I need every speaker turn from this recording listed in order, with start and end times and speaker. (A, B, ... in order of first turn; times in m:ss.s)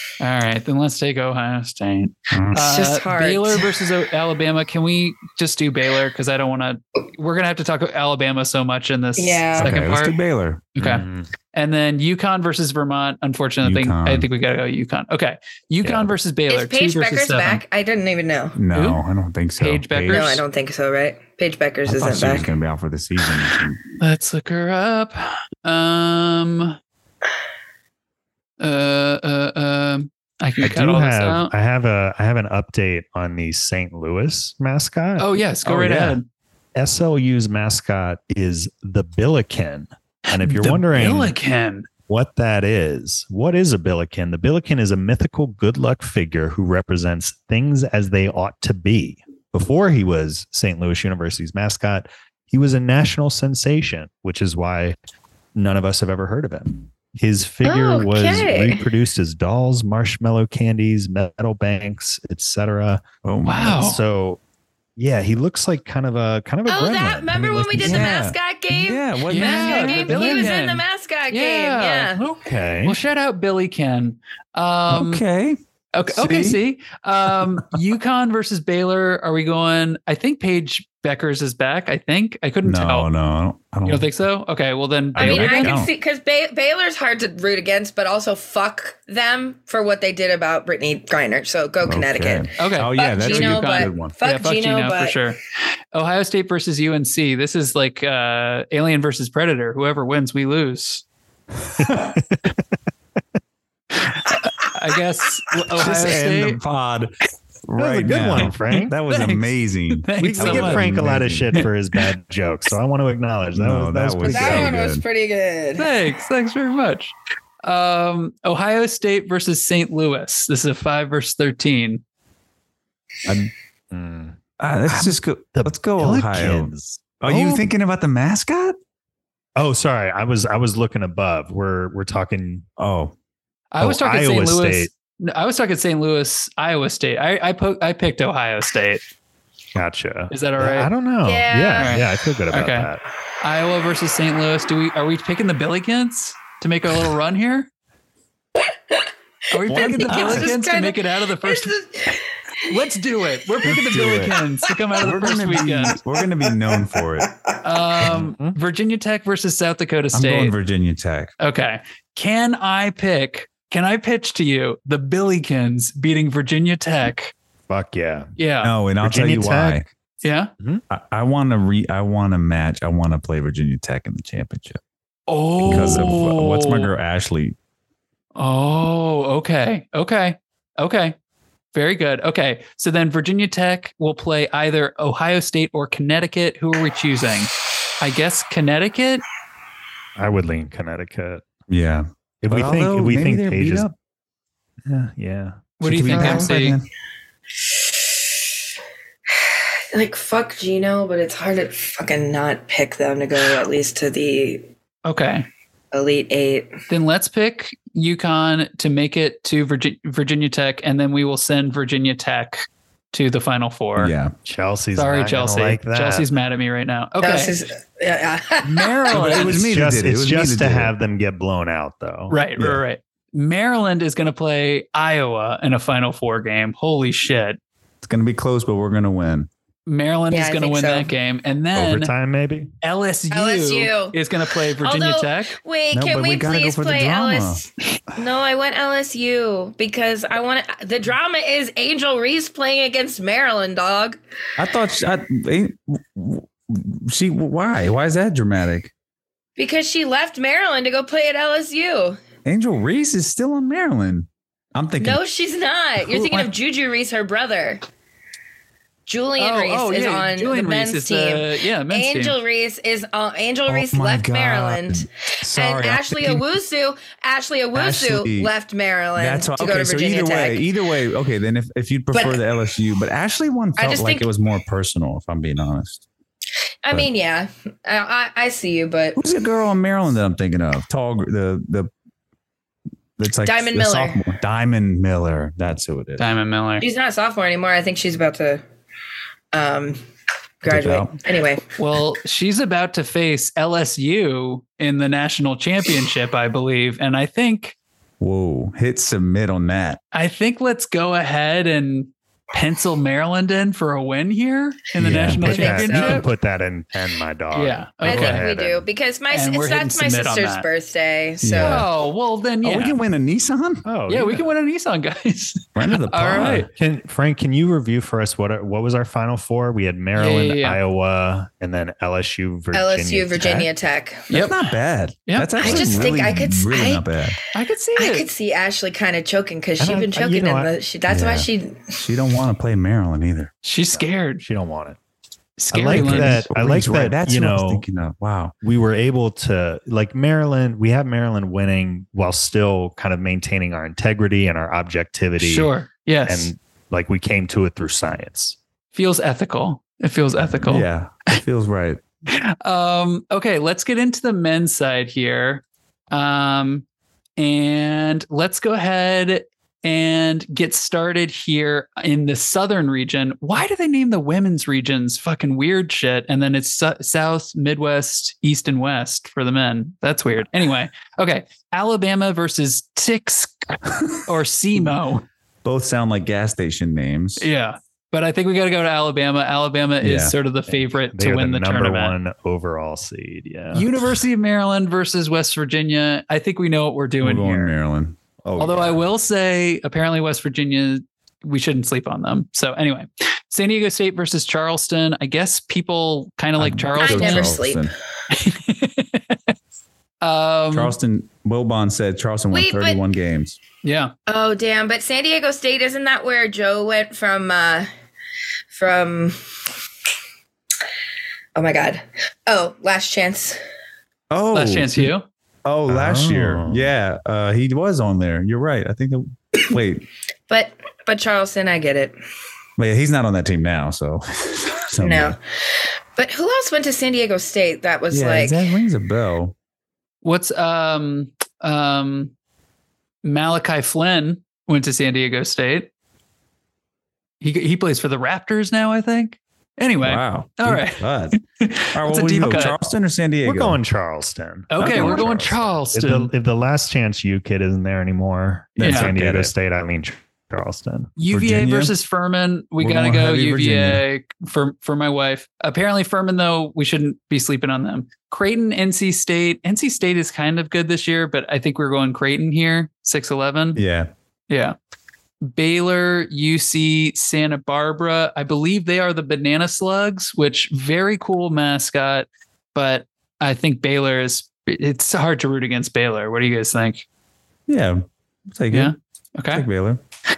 0:00.2-0:10.2 A
0:02.3-0:02.6 B
0:02.5-0:03.7 C
0:09.2-0:09.8 C
0:09.6-0:10.7 B
0:10.7-0:17.6 A
0:10.8-0:11.3 D
0:13.6-0:14.3 B
0:15.8-0:16.1 D
0:16.5-0:18.6 C
0:18.5-0:20.4 B
0:18.7-0:19.0 A
0:19.6-0:20.4 A
0:20.1-0:22.5 C
0:21.8-0:23.8 B
0:24.0-0:26.8 A
0:28.6-0:31.5 A
0:30.6-0:35.4 D
0:35.2-0:36.2 A
0:35.6-0:36.2 B
0:36.7-0:41.3 D
0:40.3-0:41.9 A
0:42.1-0:55.0 D
0:55.5-1:03.0 D
0:57.6-0:58.8 C
1:03.2-1:03.9 B
1:03.4-1:04.0 A
1:03.6-1:04.4 D
1:05.0-1:08.1 D
1:06.7-1:12.2 C
1:07.8-1:10.6 B
1:09.3-1:15.2 A
1:12.4-1:13.0 D
1:14.9-1:16.6 B
1:15.9-1:23.1 A
1:22.6-1:24.1 B
1:23.8-1:25.8 A
1:25.1-1:25.9 B
1:25.2-1:35.2 C
1:31.8-1:34.1 B
1:32.6-1:35.4 A
1:35.9-1:41.0 A
1:41.8-1:42.5 D
1:44.0-1:46.6 A
1:45.8-1:47.1 B
1:47.6-1:51.5 B
1:47.8-1:48.9 D
1:48.7-1:50.9 A
1:50.2-1:54.8 D
1:53.5-1:55.0 B
1:54.2-1:55.9 C
1:55.8-2:02.0 A
2:03.2-2:03.5 B
2:03.9-2:07.7 D
2:04.6-2:08.8 B
2:09.6-2:12.6 D
2:12.8-2:13.1 B
2:13.7-2:19.0 A
2:13.8-2:14.9 D
2:19.7-2:23.0 D
2:20.3-2:20.9 A
2:21.2-2:22.0 C
2:21.8-2:22.9 A
2:23.4-2:27.7 A
2:29.5-2:36.0 A
2:29.6-2:32.2 C
2:29.7-2:30.5 B
2:33.6-2:34.4 B
2:35.0-2:37.3 B
2:37.6-2:40.5 A
2:38.1-2:38.6 D
2:40.1-2:41.3 B
2:41.4-2:47.3 A
2:47.7-2:48.3 D
2:48.4-2:48.7 A
2:48.6-2:49.8 B
2:49.0-2:49.9 D
2:50.2-2:50.5 A
2:50.9-2:54.8 B
2:55.3-2:56.9 A
2:55.6-2:57.6 B
2:58.4-3:01.1 A
3:01.7-3:09.2 A
3:10.2-3:11.4 D
3:11.7-3:13.9 B
3:12.4-3:13.9 D
3:14.9-3:15.6 D
3:15.8-3:16.8 A
3:15.8-3:16.9 B
3:16.1-3:16.5 C
3:19.4-3:24.7 C
3:25.0-3:25.5 A
3:25.9-3:26.7 C
3:26.9-3:34.1 A
3:34.0-3:34.3 B
3:34.4-3:36.3 D
3:34.9-3:37.5 A
3:37.2-3:39.6 C
3:38.7-3:40.9 B
3:39.1-3:39.6 A
3:39.4-3:42.4 D
3:42.3-3:47.6 A
3:42.6-3:42.8 B
3:48.0-3:49.5 B
3:49.9-3:52.1 A
3:50.3-3:51.1 C
3:51.8-3:52.7 D
3:52.8-3:55.6 A
3:53.3-4:04.2 C
3:55.9-3:57.7 B
4:04.6-4:08.9 B
4:09.6-4:12.2 C
4:12.4-4:15.2 B
4:15.0-4:17.8 C
4:16.0-4:16.5 B
4:19.1-4:30.6 C
4:19.4-4:22.4 A
4:23.7-4:26.4 B
4:27.7-4:28.5 B
4:29.2-4:36.0 B
4:32.1-4:32.4 C
4:33.8-4:34.3 C
4:36.8-4:39.2 C
4:39.2-4:41.9 B
4:43.2-4:46.3 B
4:43.4-4:44.2 C
4:46.2-4:46.8 A
4:46.8-4:48.6 C
4:49.5-4:50.0 C
4:50.6-4:51.6 C
4:50.6-4:51.2 B
4:51.8-4:57.7 A
4:58.2-5:00.0 B
5:00.1-5:06.3 A
5:05.0-5:05.4 B
5:05.3-5:08.9 D
5:05.4-5:06.3 C
5:07.5-5:08.4 A
5:08.0-5:11.9 C
5:09.3-5:10.6 A
5:11.4-5:11.9 B
5:11.6-5:13.0 A
5:12.6-5:13.8 B
5:13.8-5:14.5 D
5:14.1-5:16.7 A
5:15.8-5:16.7 B
5:16.7-5:23.7 D
5:20.2-5:20.8 A
5:22.7-5:24.3 C
5:24.3-5:24.6 A
5:24.3-5:27.4 B
5:25.3-5:26.1 A
5:25.6-5:27.0 C
5:27.5-5:28.3 A
5:28.0-5:31.9 C
5:29.8-5:30.7 D
5:31.1-5:33.5 B
5:33.6-5:34.4 A
5:33.9-5:35.0 D
5:35.6-5:36.4 A
5:35.7-5:37.8 D
5:35.9-5:38.5 B
5:38.6-5:45.7 D
5:45.4-5:46.5 A
5:46.3-5:48.6 D
5:48.9-5:51.4 A
5:50.6-5:52.0 B
5:52.3-5:56.8 A
5:57.4-6:15.3 A
6:15.6-6:17.5 B
6:17.4-6:22.1 A
6:20.0-6:20.3 B
6:20.7-6:23.9 D
6:23.7-6:27.7 A
6:27.2-6:28.2 B
6:28.4-6:28.9 D
6:28.6-6:37.6 A
6:36.6-6:37.9 B
6:37.0-6:37.9 C
6:38.3-6:39.5 A
6:40.2-6:40.9 A
6:40.7-6:43.6 B
6:42.5-6:43.0 C
6:43.8-6:44.1 A
6:44.3-6:47.9 C
6:48.7-6:49.4 C
6:51.6-6:53.6 C
6:54.3-6:55.1 B
6:54.5-6:55.3 A
6:55.6-7:00.0 B
6:55.9-6:56.9 D
7:00.5-7:02.1 C
7:02.8-7:05.4 B
7:05.0-7:05.4 C
7:06.2-7:08.6 C
7:08.1-7:09.6 B
7:10.2-7:12.3 A
7:13.2-7:15.9 A
7:17.4-7:22.8 A
7:20.0-7:21.4 B
7:21.9-7:23.8 B
7:23.4-7:31.1 D
7:24.7-7:26.3 A
7:24.8-7:25.3 B
7:28.8-7:29.5 B
7:28.8-7:29.1 A
7:31.2-7:43.8 A
7:31.3-7:31.9 B
7:32.8-7:34.0 B
7:43.8-7:44.1 B
7:44.5-7:44.8 A
7:45.4-7:57.0 A
7:57.7-7:58.9 B
7:58.7-7:59.6 A
7:59.5-8:00.0 B